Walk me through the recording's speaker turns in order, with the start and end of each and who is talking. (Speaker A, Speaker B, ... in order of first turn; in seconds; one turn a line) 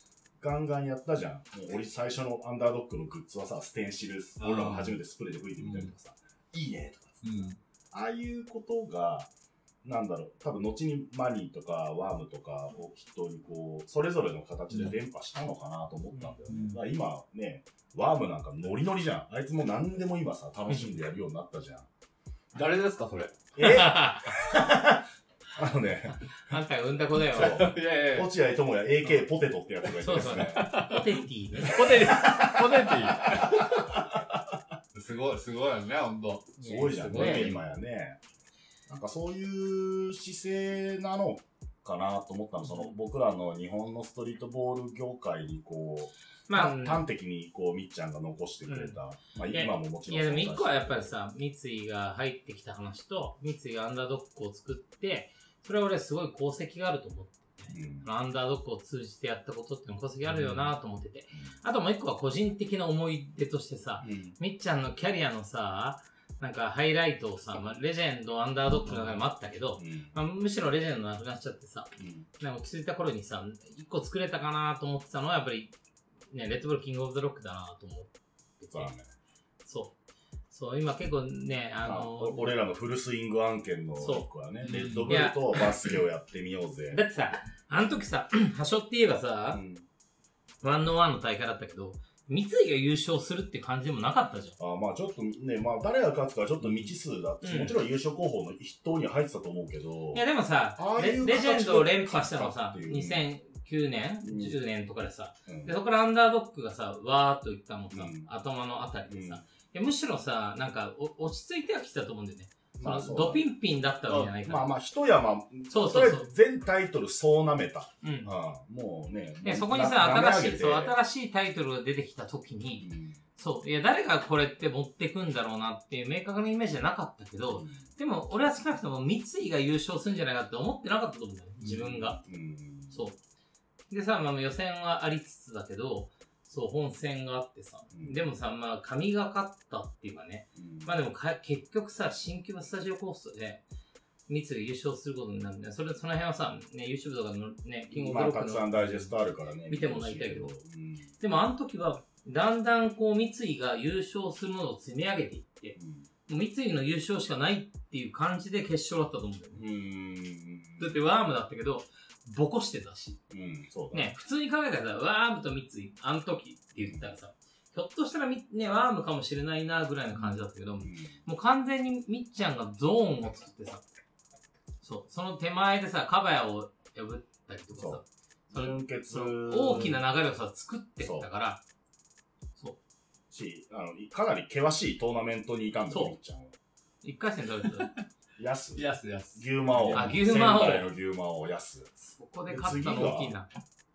Speaker A: 0.4-9.3
Speaker B: 4.4-5.0
Speaker B: 5.6-5.9
Speaker B: 7.2-7.6
Speaker A: 9.8-21.9
Speaker B: 16.5-16.8
Speaker B: 22.5-23.4
Speaker A: 23.6-26.6
Speaker C: 23.6-24.3
Speaker C: 26.5-27.7
Speaker A: 27.2-30.7
Speaker B: 27.4-28.3
Speaker C: 30.0-31.8
Speaker B: 30.4-31.1
Speaker B: 31.6-33.7
Speaker A: 31.6-34.4
Speaker B: 34.9-37.6
Speaker C: 36.6-37.5
Speaker A: 36.6-38.2
Speaker A: 38.9-51.1
Speaker C: 46.5-47.0
Speaker C: 48.7-49.0
Speaker C: 49.5-75.7
Speaker A: 57.7-58.1
Speaker B: 60.4-60.6
Speaker A: 64.0-64.4
Speaker A: 68.9-69.2
Speaker A: 69.8-70.2
Speaker A: 72.0-72.3
Speaker C: 76.3-78.9
Speaker A: 78.7-79.1
Speaker C: 79.6-80.0
Speaker C: 80.5-82.6
Speaker A: 81.8-87.0
Speaker C: 84.0-84.3
Speaker B: 84.6-85.2
Speaker C: 85.1-85.4
Speaker C: 86.9-89.6
Speaker A: 89.5-89.8
Speaker C: 90.6-94.6
Speaker A: 94.6-100.2
Speaker C: 97.4-97.8
Speaker C: 100.1-114.7
Speaker A: 100.8-103.2
Speaker A: 104.2-104.6
Speaker A: 105.5-105.7
Speaker A: 107.9-108.3
Speaker A: 109.1-109.4
Speaker A: 112.8-113.4
Speaker A: 114.4-121.0
Speaker C: 115.7-116.3
Speaker C: 118.0-118.3
Speaker C: 119.4-132.2
Speaker A: 122.8-123.2
Speaker A: 127.5-127.8
Speaker A: 131.6-133.0
Speaker C: 132.9-133.2
Speaker C: 133.9-143.6
Speaker A: 137.9-138.2
Speaker A: 140.6-140.9
Speaker C: 144.3-149.1
Speaker A: 147.9-151.1
Speaker C: 149.7-150.5
Speaker C: 151.2-155.8
Speaker A: 155.8-156.1
Speaker C: 156.3-159.6
Speaker A: 159.6-160.9
Speaker C: 160.8-163.2
Speaker A: 163.3-164.1
Speaker C: 163.9-173.8
Speaker A: 166.8-167.1
Speaker A: 170.8-171.2
Speaker C: 174.8-181.6
Speaker A: 177.8-180.0
Speaker A: 181.0-181.3
Speaker A: 183.3-186.5
Speaker C: 185.9-186.2
Speaker C: 187.0-187.9
Speaker A: 188.4-191.9
Speaker B: 188.8-190.2
Speaker C: 189.9-190.9
Speaker C: 192.0-193.5
Speaker A: 192.5-193.4